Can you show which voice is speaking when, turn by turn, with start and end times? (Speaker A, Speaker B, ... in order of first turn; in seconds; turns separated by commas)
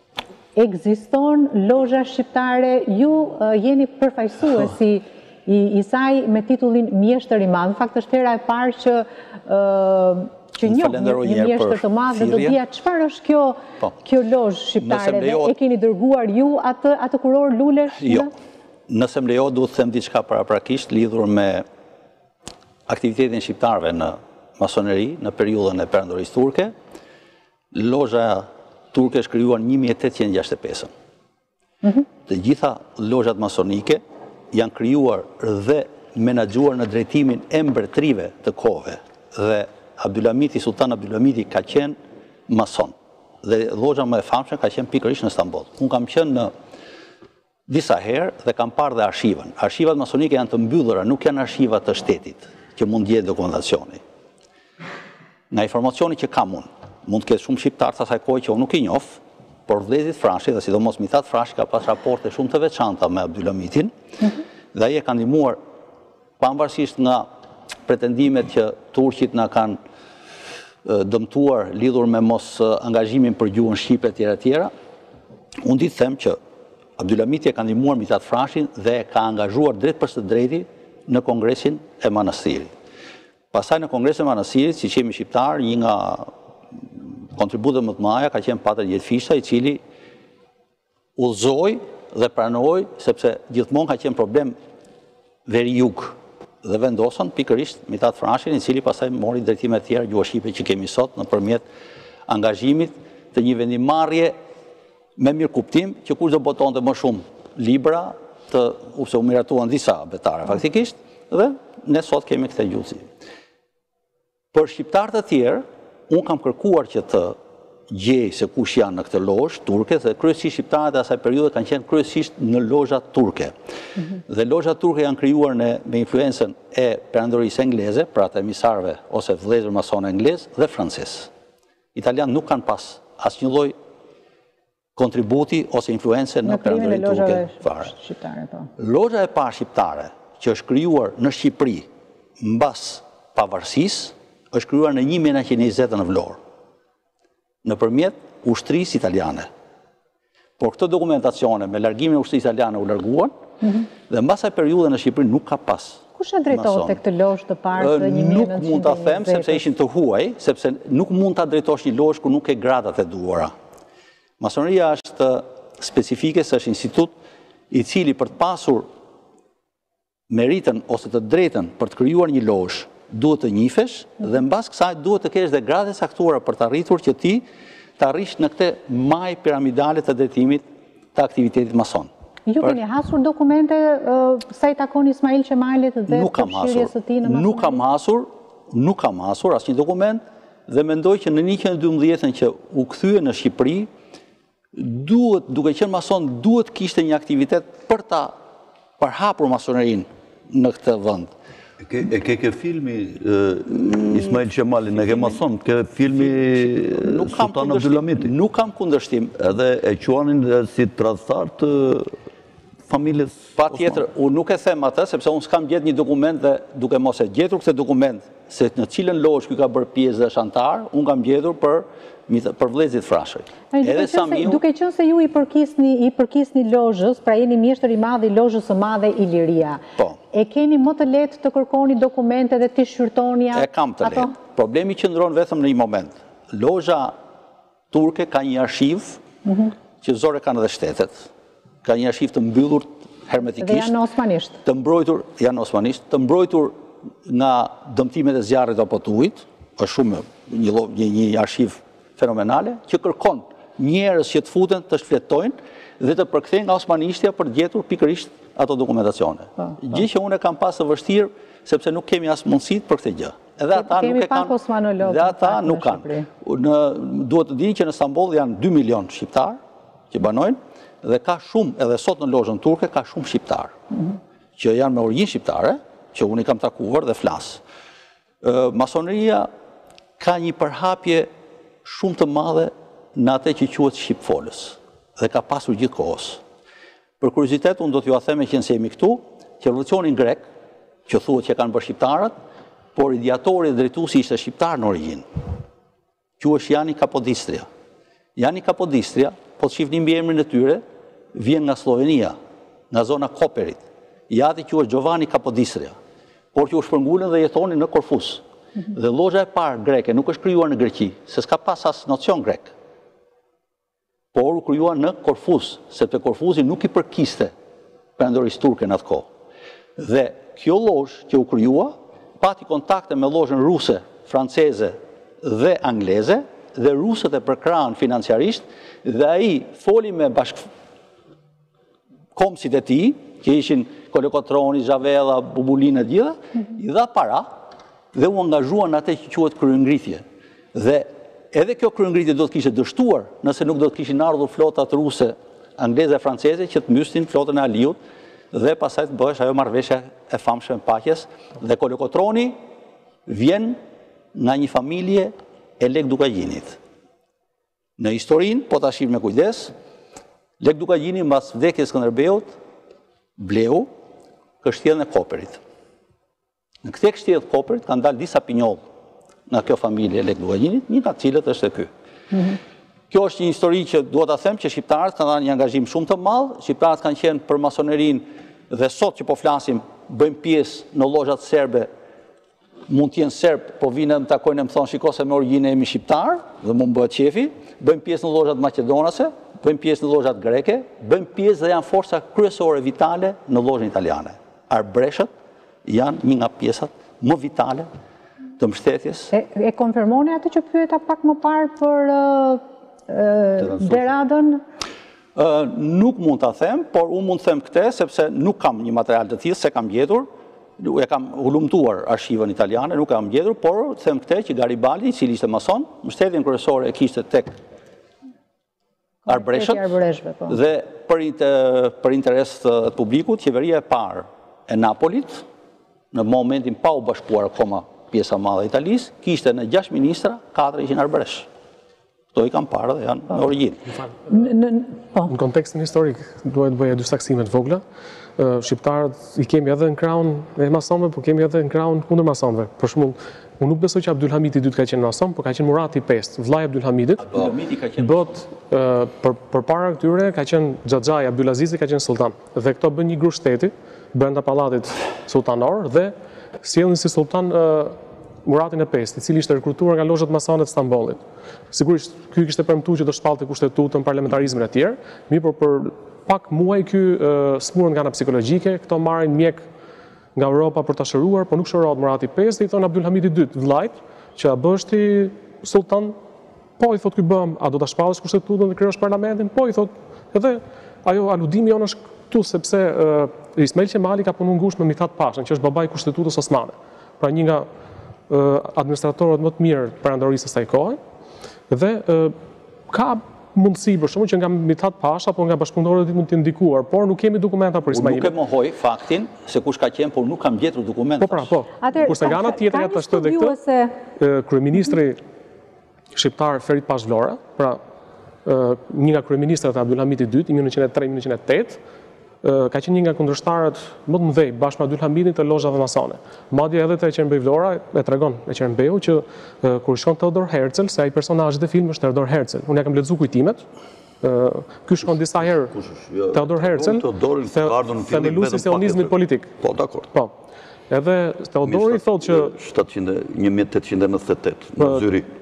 Speaker A: 0.6-18.3, Speaker B: 10.6-12.6, Speaker B: 14.8-15.5, Speaker B: 18.0-18.3, Speaker B: 18.9-21.7, Speaker B: 22.9-26.7, Speaker B: 27.7-30.9, Speaker B: 32.3-42.0, Speaker B: 42.5-46.5, Speaker B: 47.7-54.0, Speaker B: 55.5-63.9, Speaker B: 64.7-65.6, Speaker B: 66.4-67.3, Speaker B: 67.9-69.8, Speaker B: 70.8-74.7, Speaker B: 75.6-76.4, Speaker B: 77.0-82.7, Speaker B: 83.5-86.3, Speaker B: 87.4-89.8, Speaker B: 91.2-94.6, Speaker B: 95.5-101.6, Speaker B: 102.3-104.3, Speaker B: 105.2-113.1, Speaker B: 114.5-117.4, Speaker B: 117.9-123.5, Speaker B: 124.2-131.3, Speaker B: 131.9-133.8, Speaker B: 135.0-137.9, Speaker A: 136.4-138.7, Speaker B: 138.8-141.9, Speaker B: 142.4-146.4, Speaker B: 147.6-149.5, Speaker B: 150.6-153.3, Speaker B: 154.0-157.0, Speaker A: 156.2-159.6, Speaker B: 157.8-163.5, Speaker B: 164.4-167.1, Speaker B: 167.7-168.9, Speaker B: 170.3-177.5, Speaker B: 178.0-180.6, Speaker B: 181.2-182.1, Speaker A: 182.5-187.8, Speaker B: 186.1-193.9, Speaker B: 194.7-198.4, Speaker B: 199.0-201.3, Speaker C: 201.8-208.3, Speaker B: 203.8-204.4, Speaker B: 204.9-205.4, Speaker B: 206.2-209.3, Speaker C: 209.4-212.1, Speaker C: 212.9-214.0, Speaker B: 213.6-224.6, Speaker A: 223.7-229.8, Speaker A: 230.3-234.3, Speaker B: 233.5-237.2, Speaker B: 237.9-239.2, Speaker A: 239.5-239.7, Speaker B: 240.0-241.3, Speaker B: 241.8-244.0, Speaker A: 243.6-244.6, Speaker B: 244.6-269.6, Speaker A: 263.7-266.3, Speaker B: 270.1-273.7, Speaker B: 274.6-277.6, Speaker B: 278.4-279.5, Speaker B: 280.2-281.3, Speaker B: 281.9-286.4, Speaker B: 287.2-290.5, Speaker B: 291.1-292.4, Speaker B: 292.9-295.3, Speaker B: 296.4-297.7, Speaker B: 298.4-300.8, Speaker B: 301.4-302.4, Speaker B: 302.9-305.9, Speaker B: 306.5-312.7, Speaker B: 314.3-317.5, Speaker B: 318.2-319.3, Speaker B: 320.0-330.7, Speaker B: 332.4-337.6, Speaker B: 338.1-340.2, Speaker B: 340.7-348.0, Speaker B: 348.5-352.6, Speaker B: 353.3-353.8, Speaker B: 354.4-356.8, Speaker B: 358.0-359.7, Speaker B: 360.6-362.5, Speaker B: 363.4-363.9, Speaker B: 364.6-365.6, Speaker B: 366.8-368.8, Speaker B: 369.5-371.9, Speaker B: 373.1-381.9, Speaker B: 382.9-395.3, Speaker B: 395.9-397.9, Speaker B: 398.6-399.3, Speaker A: 399.3-404.6, Speaker B: 405.4-410.3, Speaker B: 410.8-417.6, Speaker B: 419.3-419.9, Speaker A: 419.3-420.6, Speaker B: 420.5-425.4, Speaker B: 426.1-431.5, Speaker B: 432.3-433.8, Speaker D: 434.1-434.4, Speaker A: 434.3-435.3, Speaker D: 435.3-437.8, Speaker D: 438.4-469.6, Speaker B: 447.2-448.3, Speaker D: 470.4-476.2, Speaker D: 476.8-487.7, Speaker D: 488.3-491.0, Speaker D: 491.7-492.4, Speaker D: 492.9-498.3, Speaker B: 497.9-501.5, Speaker D: 501.2-503.6, Speaker A: 501.8-504.0, Speaker D: 504.2-505.2, Speaker D: 506.1-507.8, Speaker D: 508.4-511.8, Speaker D: 512.4-523.6, Speaker D: 524.2-525.8, Speaker C: 525.4-530.1, Speaker D: 526.3-529.5, Speaker D: 530.9-532.5, Speaker C: 531.6-535.3, Speaker D: 534.8-535.1